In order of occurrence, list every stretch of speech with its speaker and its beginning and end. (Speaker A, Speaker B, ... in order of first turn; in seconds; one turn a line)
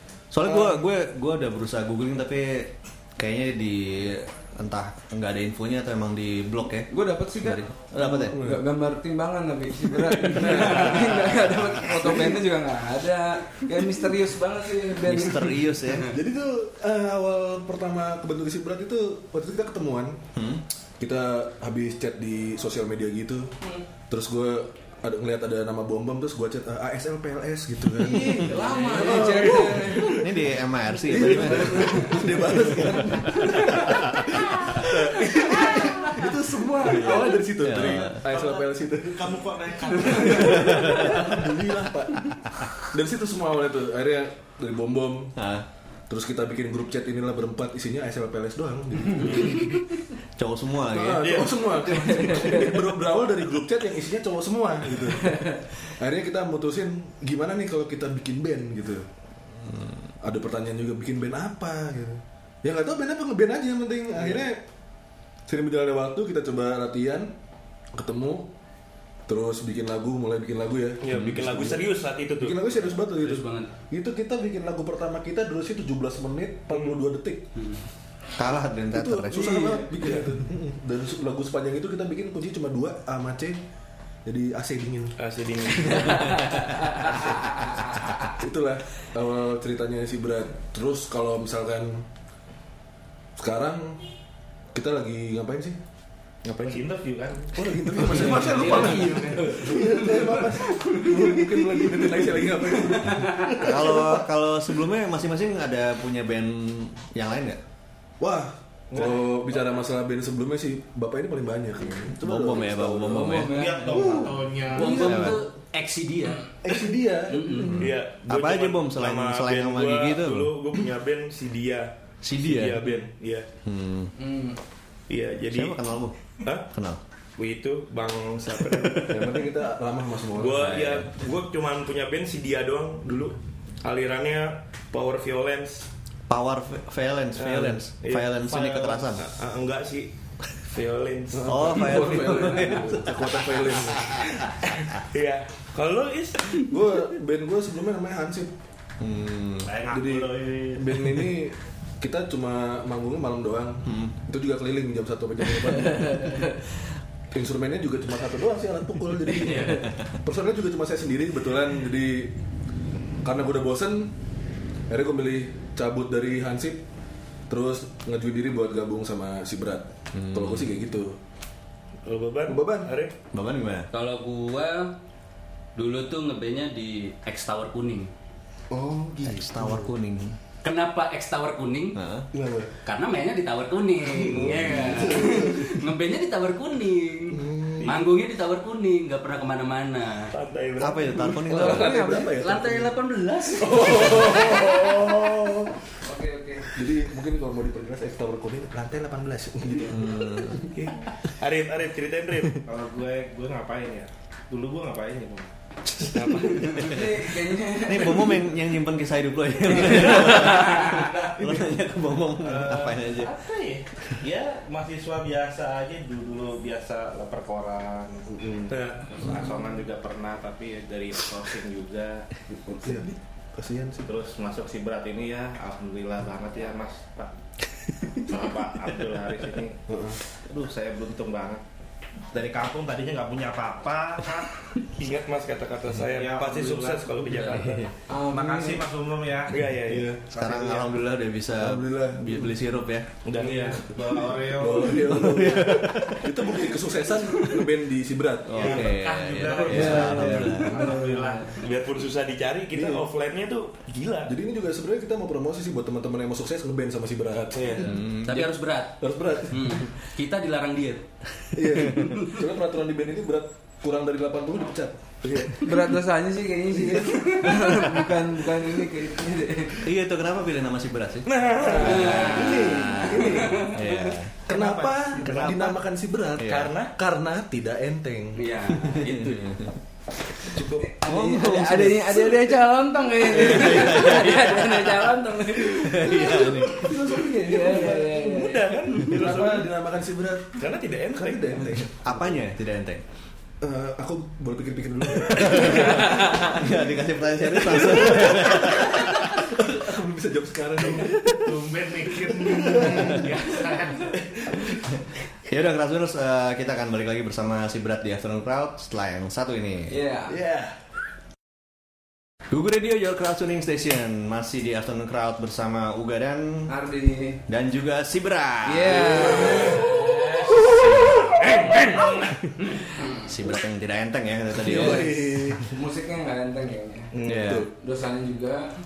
Speaker A: 0.3-8.4
Speaker B: 6.9-7.6
Speaker C: 8.0-8.6
Speaker B: 8.3-15.6
Speaker C: 10.1-11.3
Speaker C: 12.0-12.3
Speaker A: 15.0-16.1
Speaker C: 16.0-20.2
Speaker A: 20.3-20.6
Speaker C: 21.0-23.5
Speaker C: 24.1-30.4
Speaker B: 28.0-30.2
Speaker A: 28.2-28.5
Speaker D: 28.8-29.2
Speaker A: 29.4-33.0
Speaker C: 31.0-39.4
Speaker B: 31.5-32.2
Speaker B: 32.8-33.4
Speaker A: 33.9-34.3
Speaker A: 36.8-38.2
Speaker E: 37.8-38.4
Speaker F: 39.3-40.6
Speaker E: 39.3-40.3
Speaker C: 40.0-45.3
Speaker A: 40.5-41.0
Speaker A: 45.4-45.6
Speaker C: 46.1-49.9
Speaker E: 49.2-49.7
Speaker A: 50.4-51.4
Speaker C: 50.9-59.0
Speaker E: 51.2-52.2
Speaker A: 59.5-60.1
Speaker C: 60.2-64.6
Speaker C: 65.5-67.3
Speaker C: 67.9-68.5
Speaker C: 69.3-71.4
Speaker E: 71.0-72.6
Speaker A: 71.1-71.8
Speaker C: 72.4-77.5
Speaker D: 73.1-73.7
Speaker E: 76.7-77.0
Speaker D: 77.5-77.8
Speaker A: 78.4-79.7
Speaker C: 78.9-83.6
Speaker B: 79.3-80.3
Speaker C: 84.2-85.1
Speaker E: 85.2-86.5
Speaker C: 88.3-92.0
Speaker C: 93.4-94.0
Speaker C: 94.7-95.8
Speaker E: 96.5-96.8
Speaker F: 96.6-97.5
Speaker C: 97.5-104.2
Speaker D: 98.0-100.3
Speaker B: 98.7-101.1
Speaker A: 103.6-107.6
Speaker C: 108.2-115.4
Speaker F: 108.9-109.3
Speaker A: 112.1-113.8
Speaker B: 113.1-114.3
Speaker F: 113.6-115.1
Speaker D: 114.7-116.5
Speaker A: 114.9-115.4
Speaker C: 116.6-117.9
Speaker D: 117.3-117.8
Speaker A: 117.7-120.5
Speaker E: 117.8-123.5
Speaker A: 122.2-122.8
Speaker A: 123.6-124.1
Speaker B: 124.2-124.6
Speaker E: 125.1-125.8
Speaker A: 125.5-126.2
Speaker E: 126.4-126.7
Speaker A: 126.7-127.0
Speaker E: 127.4-129.5
Speaker C: 129.1-130.7
Speaker E: 130.3-135.8
Speaker A: 130.6-131.1
Speaker A: 136.3-139.3
Speaker E: 137.3-140.1
Speaker E: 140.6-142.0
Speaker C: 141.3-144.3
Speaker A: 141.4-144.2
Speaker E: 145.0-146.7
Speaker C: 146.6-148.5
Speaker A: 149.0-149.7
Speaker F: 149.7-150.8
Speaker C: 149.9-156.3
Speaker A: 153.8-154.1
Speaker B: 155.8-156.5
Speaker C: 157.3-162.3
Speaker A: 159.6-160.1
Speaker C: 163.2-164.1
Speaker C: 164.9-166.8
Speaker C: 167.5-171.2
Speaker A: 170.1-170.7
Speaker E: 172.0-173.1
Speaker C: 172.5-172.9
Speaker A: 173.3-173.9
Speaker D: 173.9-174.9
Speaker D: 175.8-178.1
Speaker C: 178.7-179.9
Speaker A: 179.2-180.4
Speaker D: 180.6-182.0
Speaker A: 181.9-182.3
Speaker C: 182.3-182.7
Speaker D: 182.8-190.3
Speaker C: 184.3-185.8
Speaker C: 187.3-188.0
Speaker E: 190.3-191.4
Speaker A: 190.8-192.1
Speaker B: 191.5-192.4
Speaker C: 191.5-192.9
Speaker D: 192.2-194.7
Speaker C: 193.6-195.8
Speaker B: 196.0-196.7
Speaker C: 196.6-200.7
Speaker A: 199.9-200.6
Speaker E: 200.7-202.6
Speaker F: 202.7-205.5
Speaker A: 206.0-207.0
Speaker E: 206.1-206.9
Speaker B: 206.7-208.4
Speaker A: 207.8-213.3
Speaker F: 210.5-211.6
Speaker F: 212.4-222.2
Speaker C: 218.3-218.7
Speaker E: 218.7-219.3
Speaker C: 222.5-224.1
Speaker F: 224.0-227.3
Speaker F: 228.2-229.8
Speaker C: 229.9-230.2
Speaker F: 230.5-231.6
Speaker F: 232.3-234.5
Speaker E: 234.8-237.9
Speaker F: 236.1-237.6
Speaker B: 238.1-238.8
Speaker F: 238.3-239.6
Speaker E: 239.5-240.1
Speaker C: 239.8-240.2
Speaker F: 240.3-240.9
Speaker A: 240.3-243.1
Speaker C: 241.5-242.5
Speaker E: 243.2-243.9
Speaker F: 243.4-245.4
Speaker C: 243.9-248.9
Speaker A: 245.0-246.5
Speaker A: 248.5-250.8
Speaker F: 248.5-251.6
Speaker B: 249.5-251.5
Speaker E: 251.5-254.3
Speaker C: 252.7-253.0
Speaker C: 254.3-257.9
Speaker E: 257.5-257.9
Speaker A: 257.8-258.5
Speaker D: 258.2-259.0
Speaker C: 259.0-259.9
Speaker D: 259.5-261.1
Speaker C: 261.5-265.7
Speaker D: 262.0-262.3
Speaker B: 265.6-269.8
Speaker C: 266.7-267.5
Speaker A: 269.8-274.4
Speaker E: 271.3-272.2
Speaker C: 271.5-273.7
Speaker D: 272.0-272.9
Speaker C: 274.4-278.4
Speaker E: 274.5-275.7
Speaker A: 275.2-275.8
Speaker A: 276.4-276.7
Speaker E: 276.4-276.9
Speaker D: 278.4-279.5
Speaker A: 278.7-279.7
Speaker E: 280.5-280.9
Speaker A: 280.6-282.6
Speaker B: 280.9-289.4
Speaker A: 283.3-284.8
Speaker A: 285.5-287.0
Speaker C: 286.2-288.4
Speaker E: 288.2-289.7
Speaker C: 289.0-292.4
Speaker E: 290.6-291.8
Speaker A: 291.8-293.0
Speaker C: 293.6-296.8
Speaker A: 295.4-295.8
Speaker A: 296.5-299.3
Speaker C: 297.5-301.6
Speaker F: 301.0-304.2
Speaker C: 302.2-303.3
Speaker C: 304.2-304.9
Speaker A: 305.5-309.9
Speaker B: 309.9-310.4
Speaker C: 310.3-310.8
Speaker A: 312.5-316.7
Speaker B: 316.7-317.4
Speaker A: 317.5-319.8
Speaker B: 318.6-319.8
Speaker C: 319.0-319.9
Speaker F: 319.8-320.7
Speaker F: 321.4-321.9
Speaker A: 323.2-325.5
Speaker C: 324.5-325.7
Speaker B: 324.6-327.1
Speaker E: 327.1-327.6
Speaker A: 327.2-327.7
Speaker C: 327.3-327.7
Speaker B: 327.8-328.7